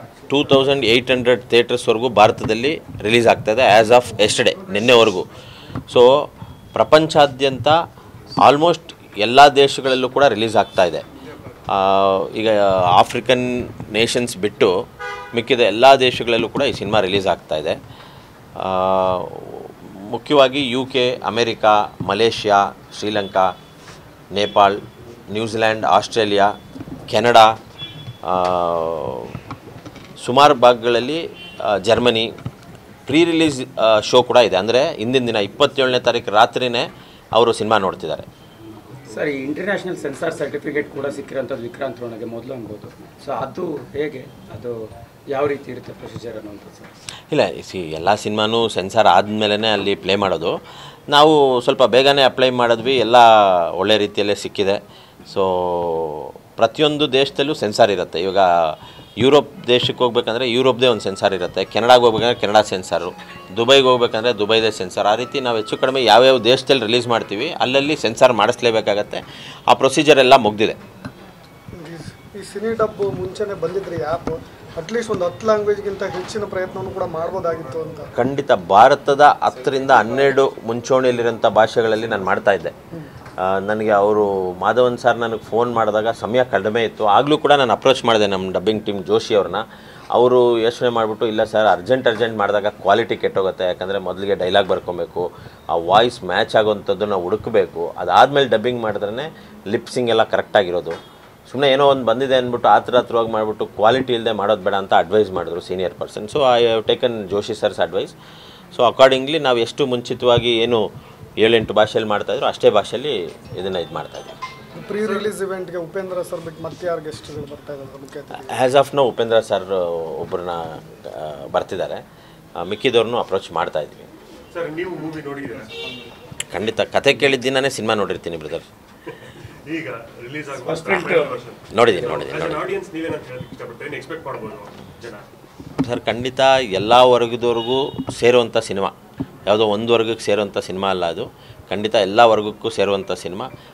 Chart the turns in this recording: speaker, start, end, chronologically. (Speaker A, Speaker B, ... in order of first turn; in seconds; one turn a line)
Speaker A: 0.3-5.2
Speaker A: 5.9-7.8
Speaker A: 8.4-11.0
Speaker A: 11.7-14.8
Speaker A: 15.3-17.8
Speaker A: 18.6-23.5
Speaker A: 24.3-24.8
Speaker A: 25.3-26.5
Speaker A: 27.1-27.5
Speaker A: 28.2-29.3
Speaker A: 30.2-32.3
Speaker A: 33.1-38.3
Speaker B: 38.9-46.9
Speaker A: 47.3-50.5
Speaker A: 51.1-70.8
Speaker C: 71.8-78.1
Speaker A: 78.1-82.7
Speaker A: 83.4-101.0
Speaker A: 101.5-108.1
Speaker A: 108.7-110.8
Speaker A: 111.4-114.3
Speaker C: 114.7-118.5
Speaker A: 118.4-122.0
Speaker A: 122.6-124.1
Speaker D: 124.5-125.7
Speaker A: 126.5-128.7
Speaker D: 129.1-135.2
Speaker B: 130.6-131.3
Speaker A: 131.7-132.7
Speaker A: 135.8-138.9
Speaker A: 139.4-143.5